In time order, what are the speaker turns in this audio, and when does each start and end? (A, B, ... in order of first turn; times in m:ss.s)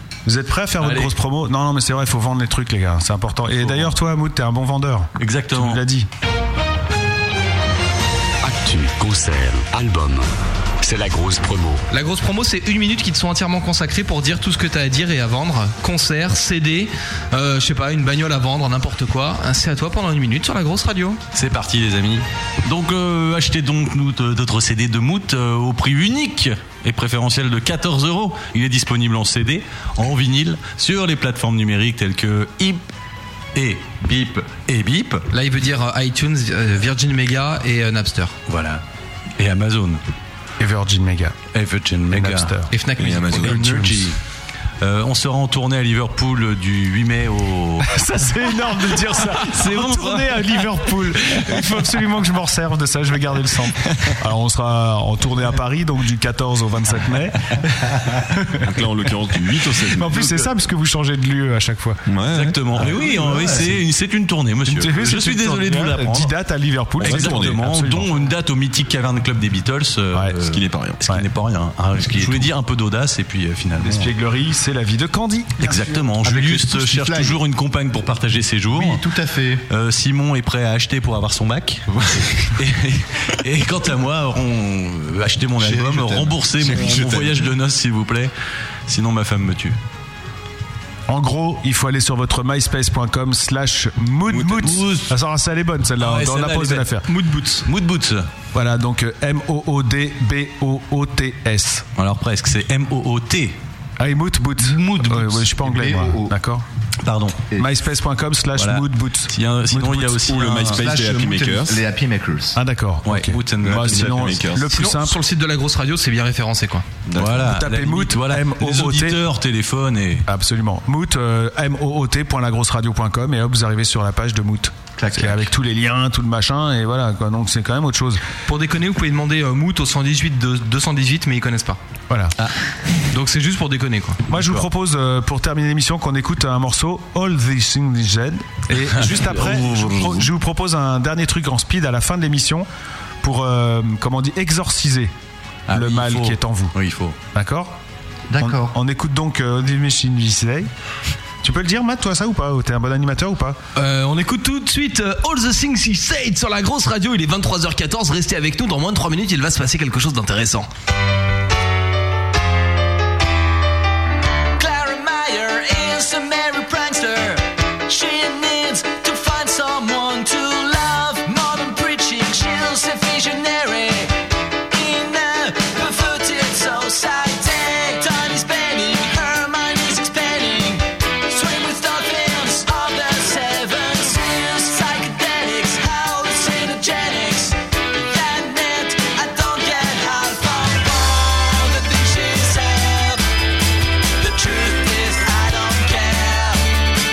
0:00.2-0:06.1 A
0:00.8-0:01.1 B
0:03.5-0:03.9 B
0:05.2-0:05.8 B
0:08.4-0:10.3 C
0:10.8-0:11.8 C
0:11.9-0:21.2 D
0:21.3-0:32.8 B
0:33.5-0:35.2 B
0:35.3-0:38.3 D
0:38.5-0:38.8 B
0:39.4-0:40.0 B
0:40.6-0:41.4 A
0:41.5-0:42.5 B
0:42.1-0:42.7 A
0:42.7-0:43.7 D
0:43.0-0:43.7 E
0:43.4-0:44.2 B
0:43.4-0:44.1 A
0:44.8-0:47.9 B
0:47.8-0:58.6 A
0:49.2-0:50.6 B
0:58.6-1:00.5 E
0:59.7-1:02.0 A
1:02.0-1:03.1 E
1:02.3-1:06.3 B
1:02.8-1:03.8 F
1:04.7-1:08.1 A
1:07.0-1:07.6 E
1:07.0-1:14.1 B
1:10.4-1:11.0 E
1:13.8-1:15.8 A
1:15.6-1:19.0 B
1:16.0-1:17.4 F
1:18.7-1:19.6 F
1:19.7-1:21.9 B
1:22.5-1:28.3 B
1:25.6-1:27.1 F
1:26.7-1:27.3 E
1:28.9-1:29.8 B
1:31.1-1:37.0 A
1:34.3-1:35.1 B
1:36.0-1:36.9 B
1:37.0-1:37.6 D
1:37.6-1:38.3 B
1:38.5-1:41.8 A
1:42.0-1:43.6 B
1:44.0-1:46.6 A
1:44.6-1:45.6 B
1:45.6-1:46.3 F
1:47.0-1:47.4 B
1:47.6-1:50.2 A
1:48.6-1:50.8 B
1:50.2-1:51.8 E
1:50.7-1:52.6 F
1:52.5-1:55.2 A
1:53.0-1:54.3 B
1:53.6-1:54.8 E
1:54.7-1:56.8 D
1:57.0-1:57.4 E
1:57.2-2:00.3 B
1:57.3-1:59.2 A
2:00.3-2:08.2 A
2:05.0-2:05.5 F
2:08.4-2:11.8 D
2:12.1-2:12.3 A
2:13.1-2:14.2 D
2:14.3-2:22.7 A
2:14.3-2:14.7 B
2:18.9-2:20.3 B
2:23.2-2:25.1 A
2:25.7-2:27.2 B
2:25.7-2:26.7 A
2:27.3-2:27.7 A
2:28.3-2:28.8 F
2:28.4-2:30.7 A
2:31.4-2:33.6 A
2:33.8-2:40.7 D
2:44.6-2:54.1 G
2:54.7-3:13.2 G
3:14.2-3:16.7 G